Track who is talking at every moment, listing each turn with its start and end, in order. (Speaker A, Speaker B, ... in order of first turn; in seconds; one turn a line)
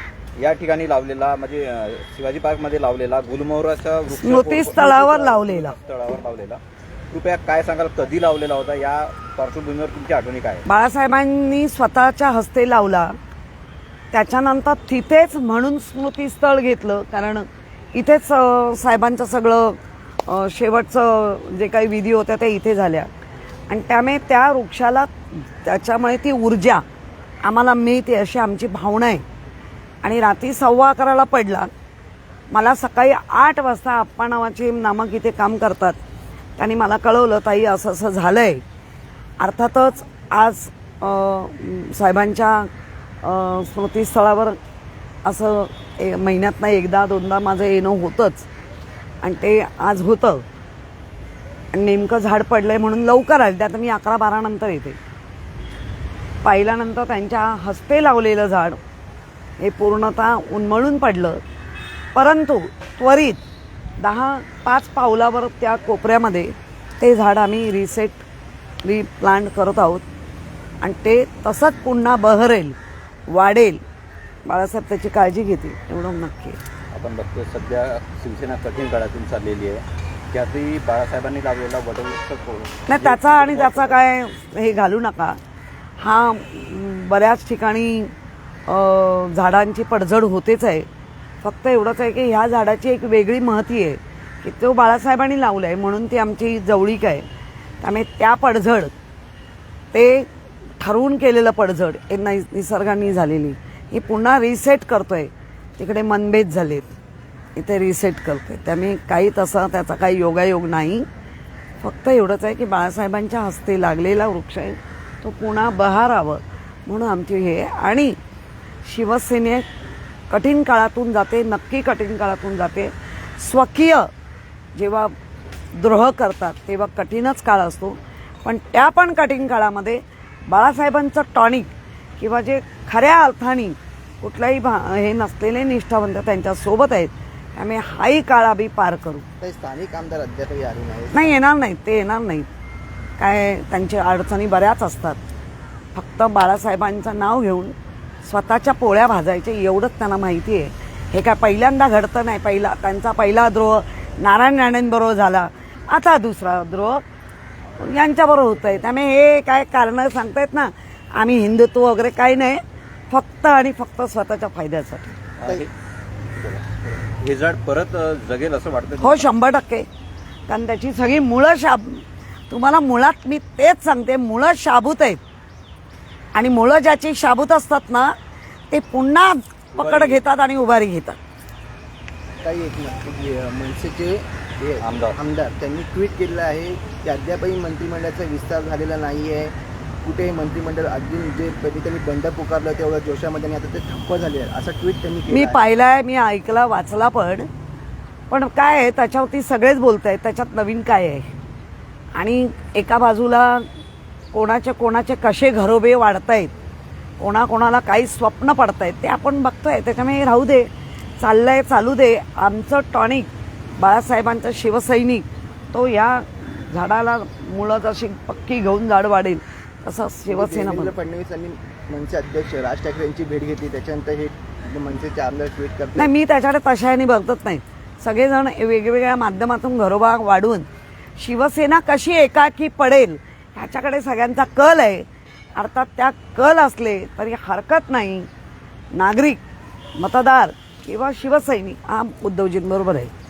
Speaker A: 0.4-6.6
Speaker B: 4.1-5.8
Speaker A: 7.1-10.6
Speaker B: 10.6-13.2
Speaker B: 14.1-23.1
Speaker B: 23.7-26.8
Speaker B: 27.4-29.2
Speaker B: 30.0-31.7
Speaker B: 32.5-36.0
Speaker B: 36.6-38.6
Speaker B: 39.4-42.7
Speaker B: 43.2-44.6
Speaker B: 45.2-48.5
Speaker B: 49.2-50.4
Speaker B: 51.7-55.0
Speaker B: 56.4-58.8
Speaker B: 59.6-61.4
Speaker B: 62.1-63.4
Speaker B: 64.0-68.2
Speaker B: 68.8-70.0
Speaker B: 70.8-72.8
Speaker B: 73.3-73.8
Speaker B: 74.5-76.6
Speaker A: 76.9-84.0
Speaker B: 82.9-85.4
Speaker B: 86.0-88.1
Speaker B: 88.7-90.9
Speaker B: 91.4-97.2
Speaker B: 97.8-98.9
Speaker B: 99.9-100.3
Speaker B: 100.8-106.9
Speaker B: 107.5-111.0
Speaker B: 111.8-118.2
Speaker B: 118.8-119.7
Speaker B: 120.3-124.1
Speaker B: 124.7-125.1
Speaker B: 125.8-139.2
Speaker C: 139.4-141.4
Speaker B: 141.1-142.5
Speaker B: 143.2-145.2
Speaker B: 145.9-157.0
Speaker B: 157.8-165.2
Speaker A: 165.4-165.7
Speaker A: 167.2-169.3
Speaker B: 169.0-169.9
Speaker B: 170.5-175.2
Speaker B: 176.3-178.1
Speaker B: 178.7-181.2
Speaker A: 179.7-180.2
Speaker C: 182.4-195.6
Speaker A: 184.8-185.2
Speaker B: 195.3-197.5
Speaker B: 198.3-201.2
Speaker B: 202.2-203.6
Speaker B: 204.3-206.5
Speaker B: 207.2-220.9
Speaker C: 220.3-226.1
Speaker B: 225.9-235.0
Speaker B: 235.6-238.3
Speaker B: 238.9-239.4
Speaker B: 240.0-243.1